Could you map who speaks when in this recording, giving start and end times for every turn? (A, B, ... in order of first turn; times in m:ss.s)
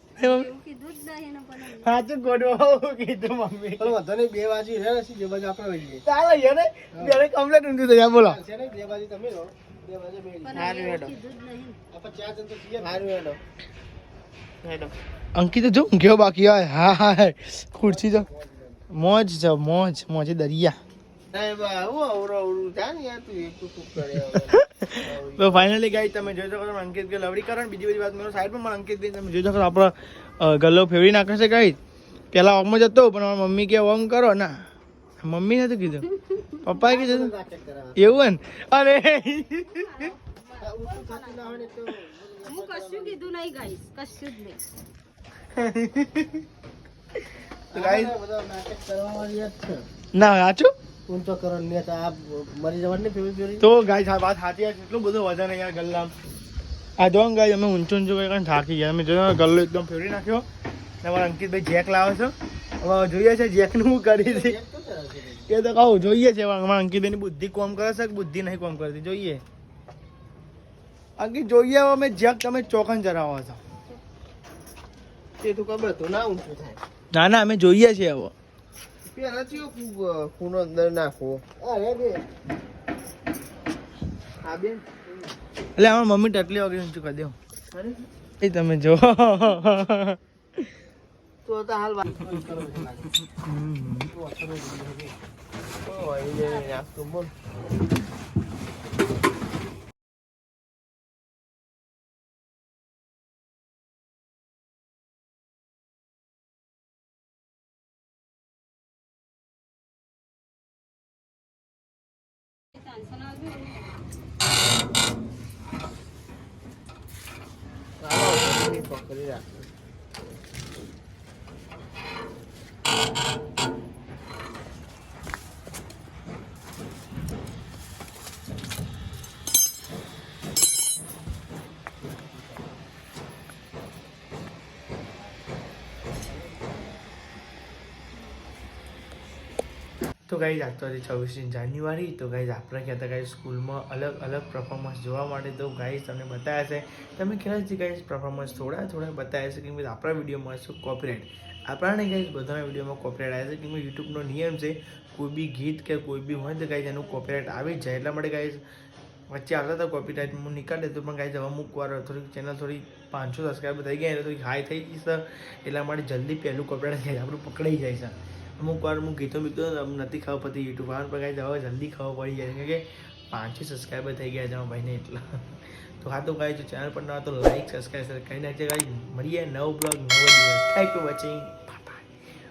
0:00.2-0:00.5 A
0:00.4-0:01.9 B
0:01.6-0:04.0 A
0:03.8-0:06.0 C
0:06.0-0:08.4 A
0:08.2-0:11.0 C
0:10.5-0:11.7 B
0:10.5-0:11.1 A
0:11.9-0:13.4 C
0:15.4-0:18.3 A
0:18.9-0:20.8 A
0:21.3-0:26.2 C
0:24.1-0:31.8 A
0:32.3-0:34.6 A
0:35.2-0:36.1 A
0:36.6-0:37.3 A
0:36.8-0:38.1 C
0:38.0-0:40.1 A
0:40.6-0:43.2 C
0:40.9-0:41.4 B
0:42.4-0:44.6 B
0:45.5-0:46.4 A
0:47.7-0:48.1 A
0:47.7-0:49.8 C
0:50.2-0:50.7 A
0:51.1-0:53.7 C
0:53.6-0:56.1 A
0:57.0-1:00.4 A
1:01.0-1:04.6 A
1:04.2-1:05.5 C
1:05.5-1:09.4 A
1:11.2-1:13.6 A
1:15.4-1:16.8 C
1:17.1-1:18.3 A
1:19.1-1:22.2 C
1:24.4-1:24.8 C
1:25.8-1:27.4 A
1:27.7-1:28.0 C
1:28.4-1:30.2 A
1:31.4-1:33.1 C
1:33.3-1:34.1 A
1:34.1-1:35.1 C
1:35.9-1:37.3 C
1:58.0-1:59.5 C
2:20.3-2:38.6 A
2:39.3-2:55.4 A
2:56.0-3:02.1 A